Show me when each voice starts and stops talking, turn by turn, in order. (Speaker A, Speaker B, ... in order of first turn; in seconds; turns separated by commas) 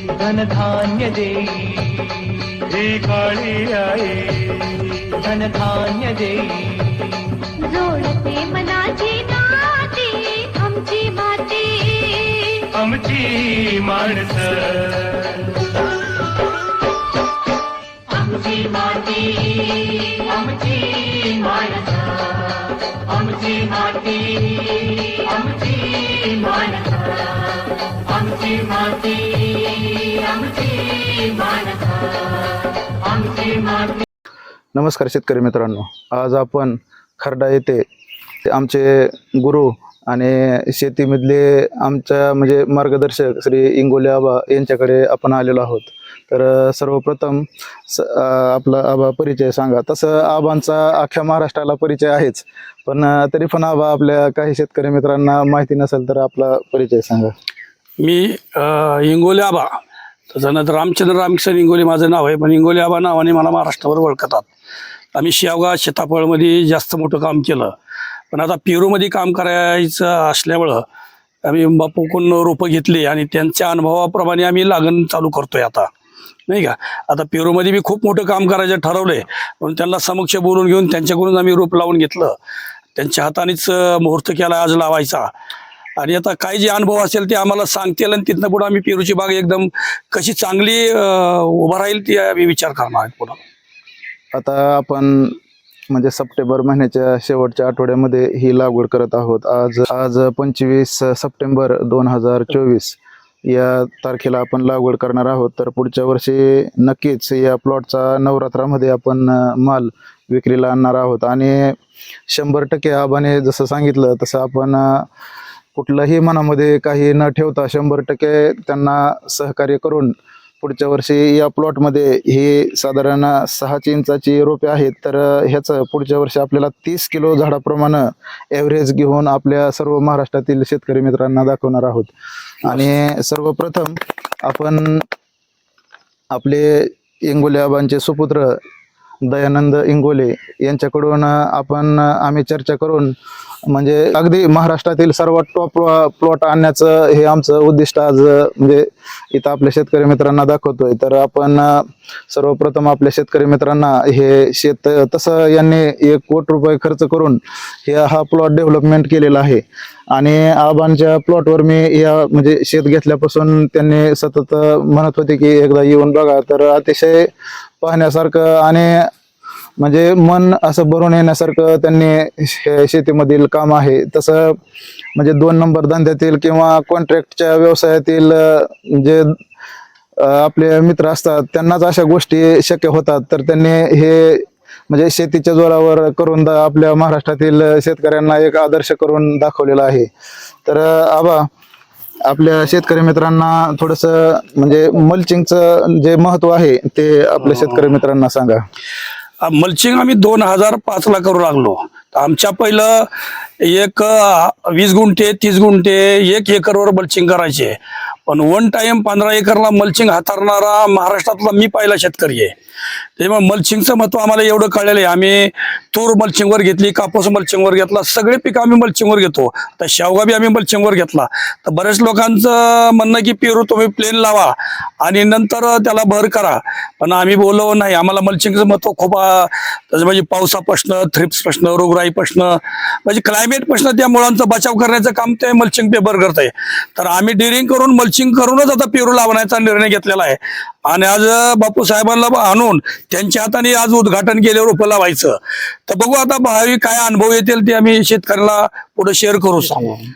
Speaker A: 0.1-2.5, Speaker B: 2.8-4.8, Speaker A: 5.2-7.5, Speaker C: 7.6-12.7, Speaker B: 12.8-14.2, Speaker A: 14.3-15.4, Speaker A: 18.1-34.0, Speaker D: 34.7-37.9, Speaker D: 38.5-57.3, Speaker E: 58.0-59.7, Speaker E: 60.3-64.5, Speaker E: 65.2-67.7, Speaker E: 68.3-70.8, Speaker E: 71.4-75.9, Speaker E: 76.5-82.4, Speaker E: 83.0-85.3, Speaker E: 86.0-93.4, Speaker D: 94.3-95.4, Speaker D: 95.9-111.8, Speaker D: 112.3-115.1, Speaker D: 115.8-132.1, Speaker D: 132.6-135.1, Speaker D: 136.3-138.6, Speaker D: 139.2-143.2, Speaker D: 143.7-167.3, Speaker D: 167.8-169.1, Speaker D: 169.8-174.6, Speaker D: 175.2-179.4, Speaker D: 180.2-190.1, Speaker D: 190.7-191.5, Speaker D: 192.2-198.6, Speaker E: 199.4-203.1, Speaker E: 203.6-212.5, Speaker E: 213.2-250.0